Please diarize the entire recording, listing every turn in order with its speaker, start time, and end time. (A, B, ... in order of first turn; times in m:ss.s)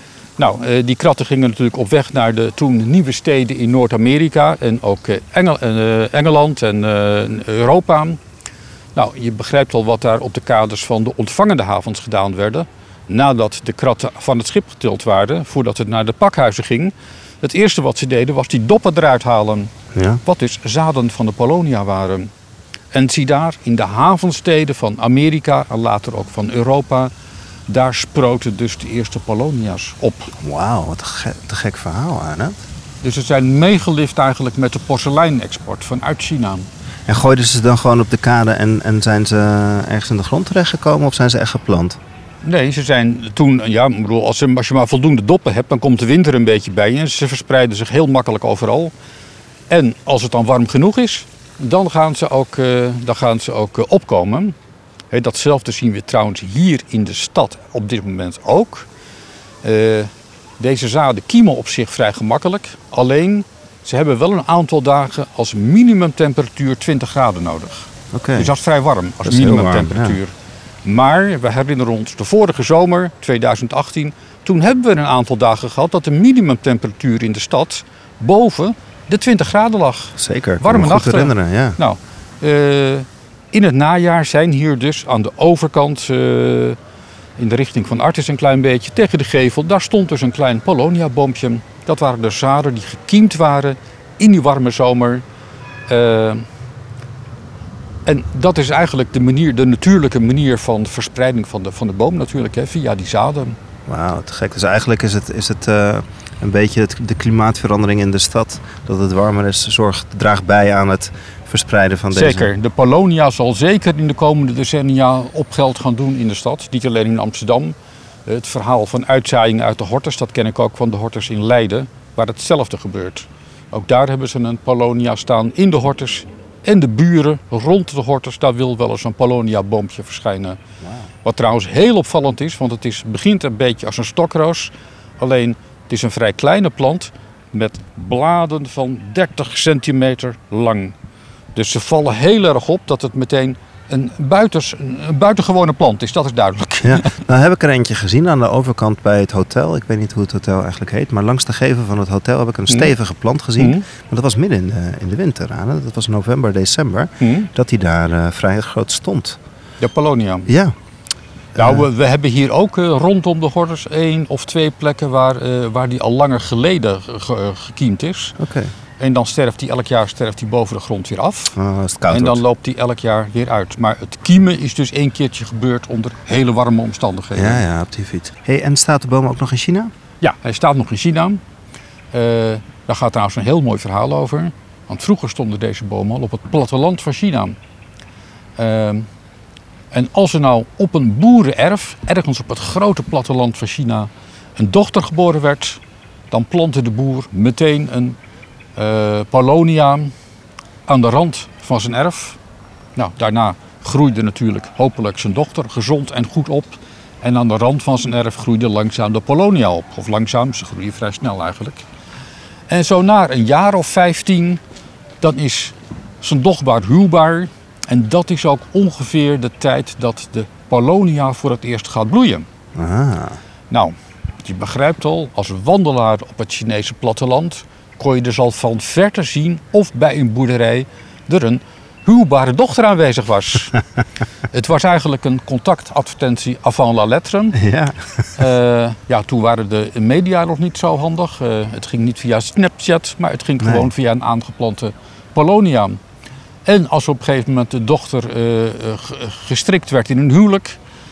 0:00.4-0:08.2 A
0:08.9-0:19.7 A
0:19.9-0:20.2 B
0:20.2-0:22.3 A
0:22.9-0:27.1 A
0:27.7-0:30.3 A
0:30.4-0:32.6 B
0:33.0-0:36.7 A
0:37.1-0:42.0 B
0:42.4-0:48.9 A
0:49.7-0:54.6 A
0:55.1-0:58.9 A
0:59.6-1:26.8 A
1:08.1-1:08.5 B
1:09.2-1:10.2 B
1:20.2-1:21.8 B
1:27.4-1:35.2 A
1:35.9-1:36.4 A
1:38.0-1:43.6 A
1:43.9-1:52.5 B
1:52.1-2:10.6 A
2:11.2-2:21.0 A
2:21.5-2:27.2 A
2:26.8-2:39.4 B
2:32.7-2:32.9 A
2:33.6-2:33.9 A
2:37.2-2:37.5 A
2:39.8-2:40.5 A
2:40.5-2:40.7 B
2:41.6-2:41.8 B
2:41.6-2:48.4 A
2:48.4-2:48.7 B
2:49.0-2:51.6 A
2:51.6-2:52.4 B
2:52.1-2:57.6 A
2:57.3-2:59.9 B
3:00.2-3:01.4 A
3:02.1-3:07.6 A
3:08.6-3:09.1 A
3:09.9-3:18.2 A
3:18.8-3:20.1 A
3:20.9-3:22.4 A
3:22.9-3:31.8 A
3:32.7-3:34.6 A
3:35.2-3:42.5 A
3:42.8-3:43.4 B
3:43.7-3:53.8 A
3:54.5-3:57.6 A
3:57.6-3:58.2 B
3:58.4-4:06.0 A
4:03.6-4:03.9 B
4:06.6-4:10.8 A